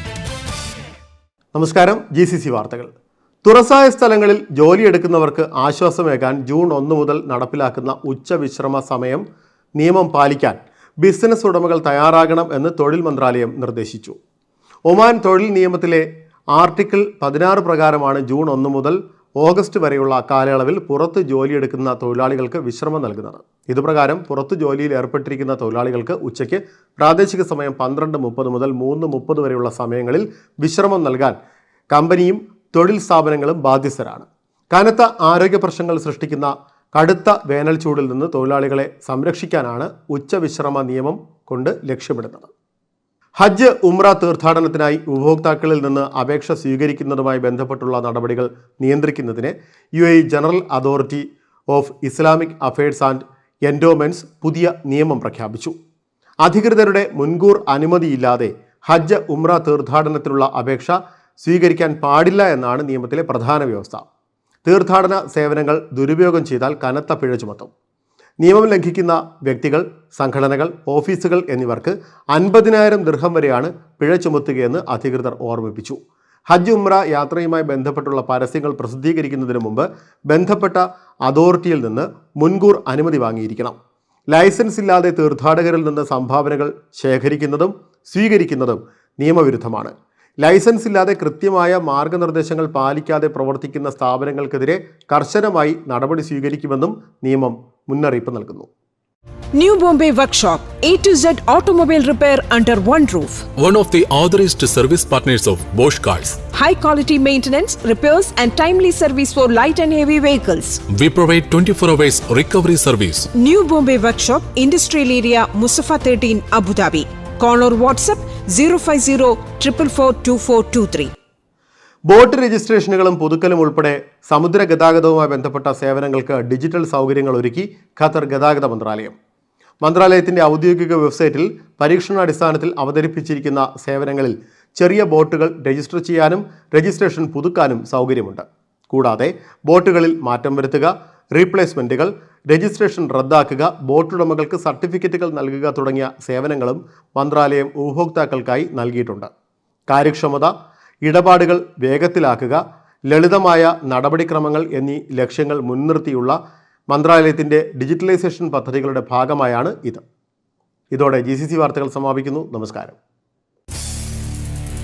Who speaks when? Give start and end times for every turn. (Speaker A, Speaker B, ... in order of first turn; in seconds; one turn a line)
Speaker A: 1.5-2.9
Speaker A: 3.4-9.2
Speaker A: 9.8-14.2
Speaker A: 14.9-31.4
Speaker A: 31.9-42.5
Speaker A: 43.4-55.8
Speaker A: 56.4-64.0
Speaker A: 64.7-67.7
Speaker A: 68.4-83.8
Speaker A: 84.3-98.7
Speaker B: 99.5-103.5
Speaker C: 103.6-106.4
Speaker B: 106.5-110.8
Speaker C: 110.9-113.3
Speaker B: 113.3-121.1
Speaker A: 122.1-129.2
Speaker A: 129.8-149.3
Speaker A: 149.9-150.5
Speaker A: 151.0-156.4
Speaker A: 156.9-160.0
Speaker A: 160.9-163.0